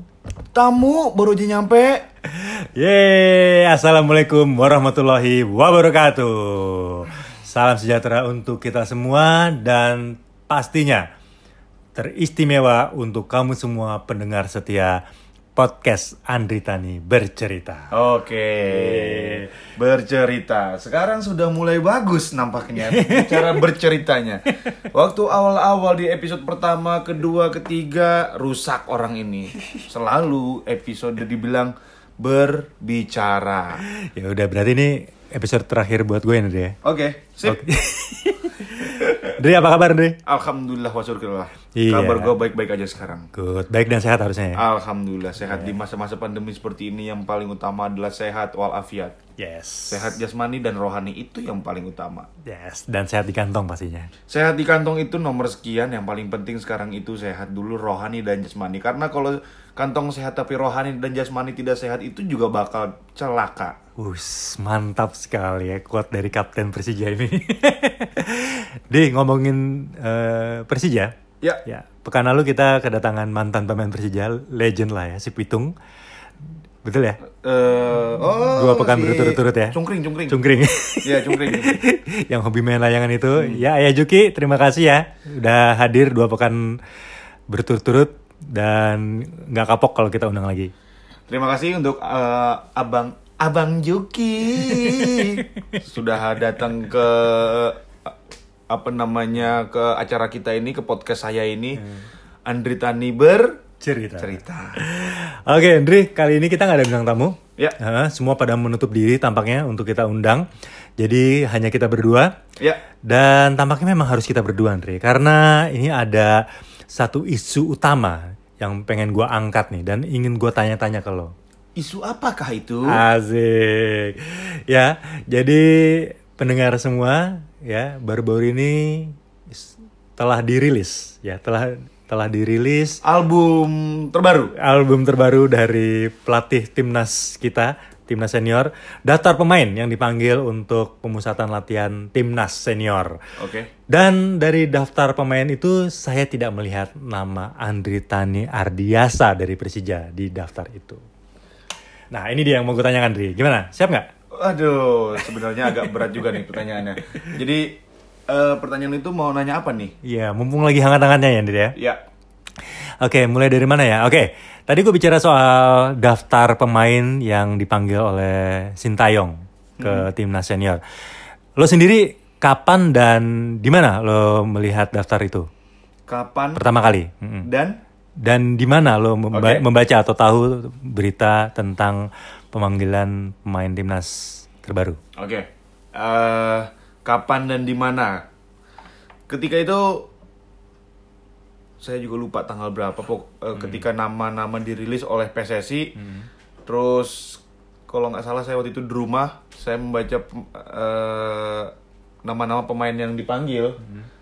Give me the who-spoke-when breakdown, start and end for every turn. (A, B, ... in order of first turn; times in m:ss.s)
0:00.5-0:02.0 A
0:02.3-0:11.0 B
0:11.9-0:15.0 B
0:15.6-0:17.9 B
0:17.9-0:33.8 A
0:18.6-0:19.5 B
0:22.8-0:23.7 B
0:34.0-0:36.8 B
0:36.8-0:37.6 A
0:37.4-0:40.2 B
0:40.2-0:43.3 A
0:41.7-0:42.3 B
0:43.3-0:44.6 B
0:44.6-0:49.2 A
0:45.4-0:45.7 B
0:49.4-0:50.2 B
0:49.9-0:52.3 A
0:52.4-0:54.1 B
0:54.3-1:03.8 A
1:04.0-1:11.1 B
1:11.6-1:15.7 B
1:16.8-1:17.2 B
1:17.4-1:20.4 A
1:18.5-1:19.8 B
1:20.3-1:26.8 B
1:21.0-1:21.8 A
1:23.4-1:23.6 A
1:27.5-1:30.7 B
1:31.3-1:38.1 A
1:34.7-1:35.8 B
1:38.7-1:41.8 A
1:41.8-1:42.0 B
1:42.4-1:43.6 A
1:43.8-1:50.4 B
1:44.2-1:44.8 A
1:51.0-1:52.3 B
1:53.1-1:56.4 B
1:56.9-2:01.3 B
2:01.8-2:03.0 A
2:02.9-2:13.0 B
2:13.0-2:14.5 A
2:14.6-2:23.1 B
2:23.4-2:23.7 A
2:23.9-2:31.0 B
2:32.1-2:34.1 B
2:34.3-2:37.8 A
2:35.7-2:36.4 B
2:38.3-2:39.9 A
2:40.0-2:41.8 B
2:41.8-2:42.0 A
2:43.0-2:50.8 B
2:49.8-2:50.1 A
2:51.6-2:55.5 B
2:56.1-2:56.6 A
2:56.6-2:57.5 B
2:57.4-2:57.8 A
2:58.2-3:05.0 B
2:59.3-2:59.6 A
3:05.2-3:08.2 A
3:09.3-3:10.1 A
3:11.8-3:15.9 A
3:13.6-3:13.8 B
3:16.0-3:16.3 B
3:16.6-3:21.7 A
3:22.2-3:23.8 A
3:23.8-3:24.1 B